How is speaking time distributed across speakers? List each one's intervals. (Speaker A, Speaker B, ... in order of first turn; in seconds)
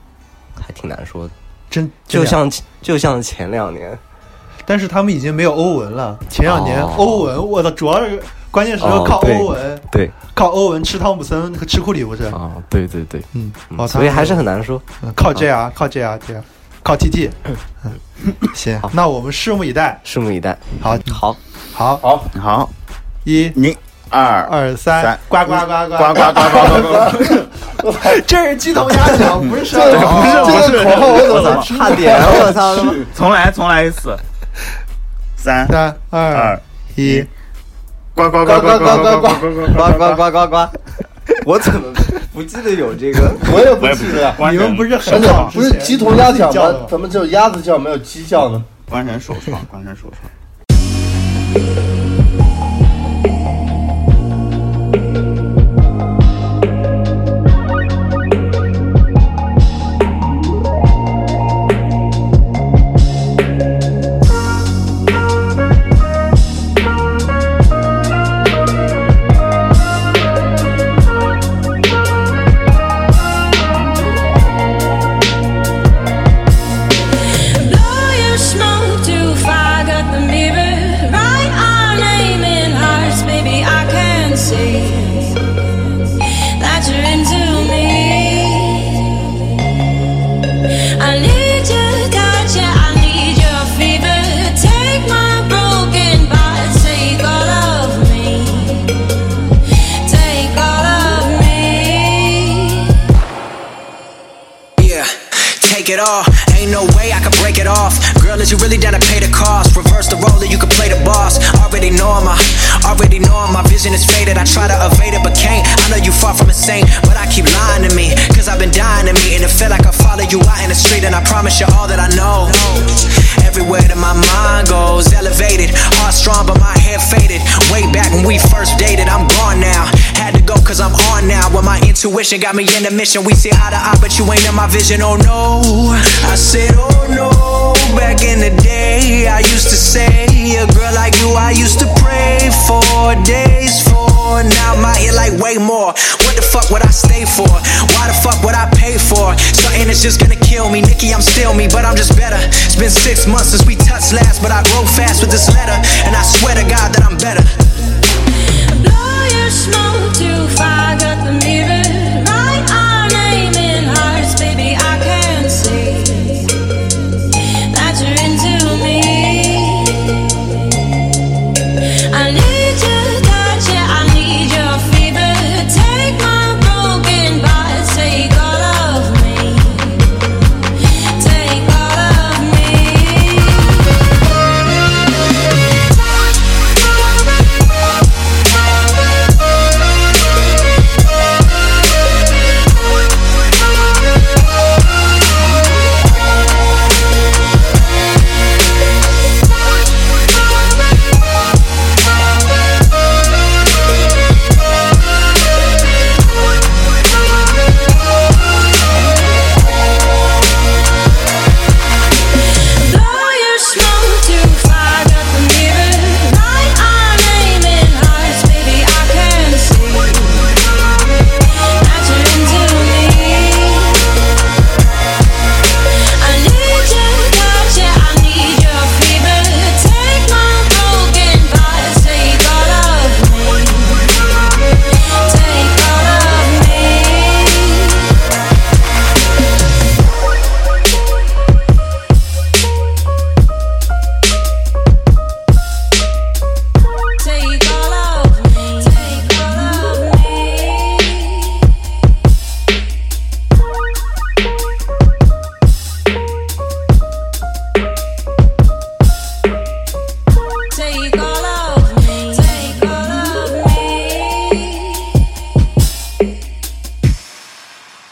Speaker A: 0.6-1.3, 2.1-4.0, 6.5-7.3, 8.8-10.1, 12.3-14.8, 20.0-21.4, 30.0-30.7, 31.2-33.1, 38.8-40.8, 41.3-43.5
Speaker B: 1.7-2.4, 4.7-12.4, 13.3-14.4, 15.0-17.9, 18.4-20.0, 20.8-21.2, 21.7-22.1, 23.2-23.6, 24.4-30.8, 35.7-37.3, 44.4-46.9
Speaker C: 22.0-22.3, 26.8-28.1, 29.7-33.1, 38.4-39.8, 43.4-44.4, 45.0-48.7
Speaker D: 22.3-22.7, 23.5-27.3, 29.7-31.7, 33.0-34.2, 35.4-35.8, 36.3-37.3, 38.1-40.2, 43.7-45.5, 48.9-50.2
Speaker E: 77.5-89.4, 91.0-102.9, 158.7-170.4, 172.1-184.0, 212.7-220.9, 221.8-224.2, 226.2-234.4, 235.2-238.0, 247.2-251.5, 260.7-265.0
Speaker F: 104.8-157.7